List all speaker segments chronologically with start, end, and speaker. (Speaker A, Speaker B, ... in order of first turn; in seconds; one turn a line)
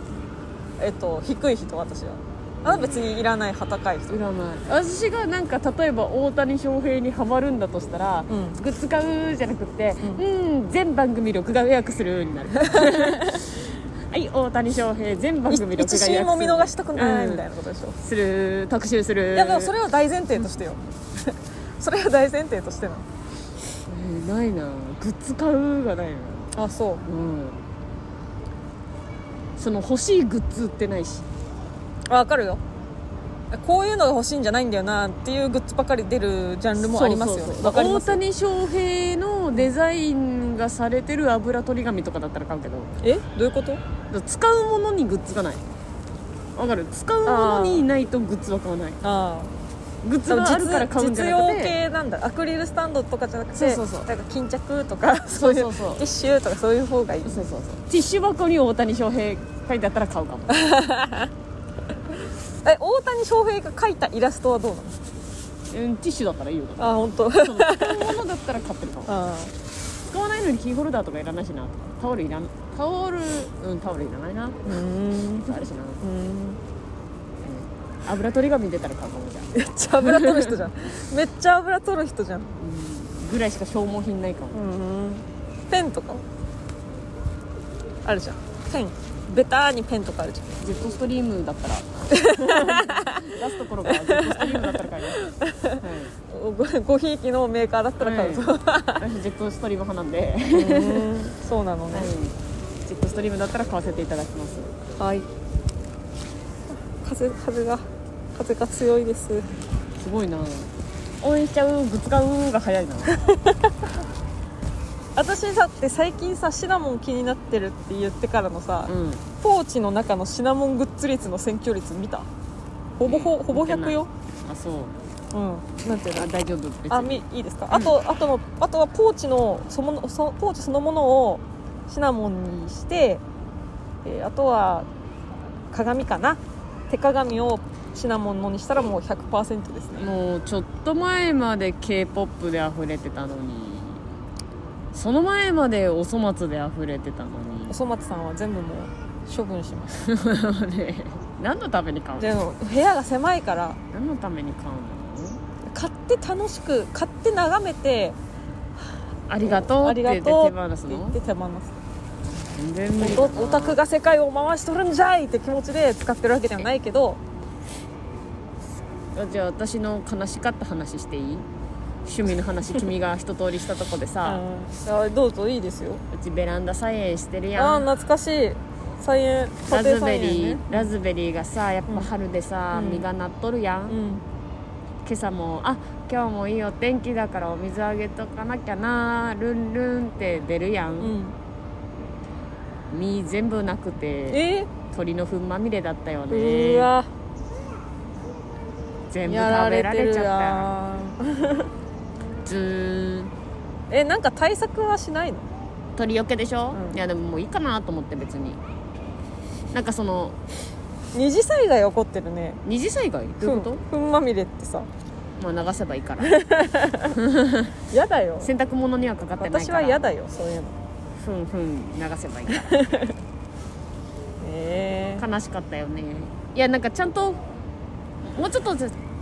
Speaker A: 0.8-4.2
Speaker B: 2.6-3.2
Speaker B: 4.1-17.4
Speaker A: 8.3-8.6
Speaker A: 12.7-13.4
Speaker A: 15.5-18.0
Speaker B: 18.0-19.7
Speaker A: 19.3-23.1
Speaker B: 23.9-27.6
Speaker A: 26.5-27.1
Speaker B: 29.6-31.3
Speaker A: 32.1-32.6
Speaker A: 33.5-38.2
Speaker B: 36.8-42.9
Speaker A: 43.0-43.8
Speaker B: 44.1-45.6
Speaker B: 46.6-49.0
Speaker A: 47.2-47.9
Speaker A: 49.0-49.5
Speaker B: 50.0-51.8
Speaker A: 50.3-57.4
Speaker B: 53.5-54.1
Speaker B: 55.3-56.0
Speaker B: 57.2-60.7
Speaker A: 60.5-61.3
Speaker A: 62.6-65.0
Speaker B: 65.7-69.2
Speaker A: 66.8-68.2
Speaker A: 69.1-69.5
Speaker B: 70.1-74.8
Speaker A: 74.7-76.6
Speaker B: 75.4-76.0
Speaker B: 77.4-80.6
Speaker A: 79.5-82.5
Speaker B: 82.6-84.6
Speaker A: 84.5-86.2
Speaker A: 88.0-90.6
Speaker B: 90.6-95.3
Speaker A: 92.1-99.0
Speaker B: 95.8-96.1
Speaker B: 98.0-101.1
Speaker A: 100.5-102.1
Speaker B: 101.9-104.8
Speaker A: 105.0-105.3
Speaker A: 107.0-109.5
Speaker B: 110.0-113.2
Speaker A: 113.1-113.7
Speaker A: 115.2-122.3
Speaker B: 118.9-119.2
Speaker A: 123.0-124.1
Speaker B: 123.0-125.0
Speaker A: 125.3-126.3
Speaker B: 126.1-128.0
Speaker A: 126.9-133.2
Speaker A: 134.0-134.9
Speaker A: 135.7-140.1
Speaker B: 140.0-144.0
Speaker B: 144.9-147.8
Speaker A: 147.7-150.1
Speaker B: 150.0-152.3
Speaker A: 152.2-153.8
Speaker B: 153.9-155.4
Speaker A: 155.7-158.2
Speaker B: 159.3-161.2
Speaker A: 159.4-161.8
Speaker B: 162.4-163.8
Speaker A: 163.0-167.2
Speaker B: 169.2-171.5
Speaker B: 172.1-174.4
Speaker A: 174.2-176.0
Speaker B: 176.1-177.9
Speaker A: 177.6-180.9
Speaker B: 179.7-184.0
Speaker A: 182.7-183.1
Speaker A: 183.9-184.2
Speaker B: 185.1-191.2
Speaker A: 191.0-191.4
Speaker B: 192.9-196.9
Speaker A: 194.3-194.7
Speaker A: 196.3-197.1
Speaker B: 199.1-200.7
Speaker A: 199.2-201.7
Speaker B: 202.4-203.3
Speaker A: 203.9-205.4
Speaker B: 206.0-208.6
Speaker B: 209.7-210.4
Speaker A: 211.1-212.6
Speaker B: 212.7-213.8
Speaker A: 213.4-214.9
Speaker B: 215.4-216.3
Speaker A: 216.2-217.2
Speaker B: 217.1-217.8
Speaker A: 217.9-218.5
Speaker B: 218.4-220.0
Speaker A: 219.4-220.8
Speaker B: 221.2-222.8
Speaker A: 222.6-223.2
Speaker A: 224.4-225.2
Speaker B: 225.2-227.4
Speaker B: 228.3-229.0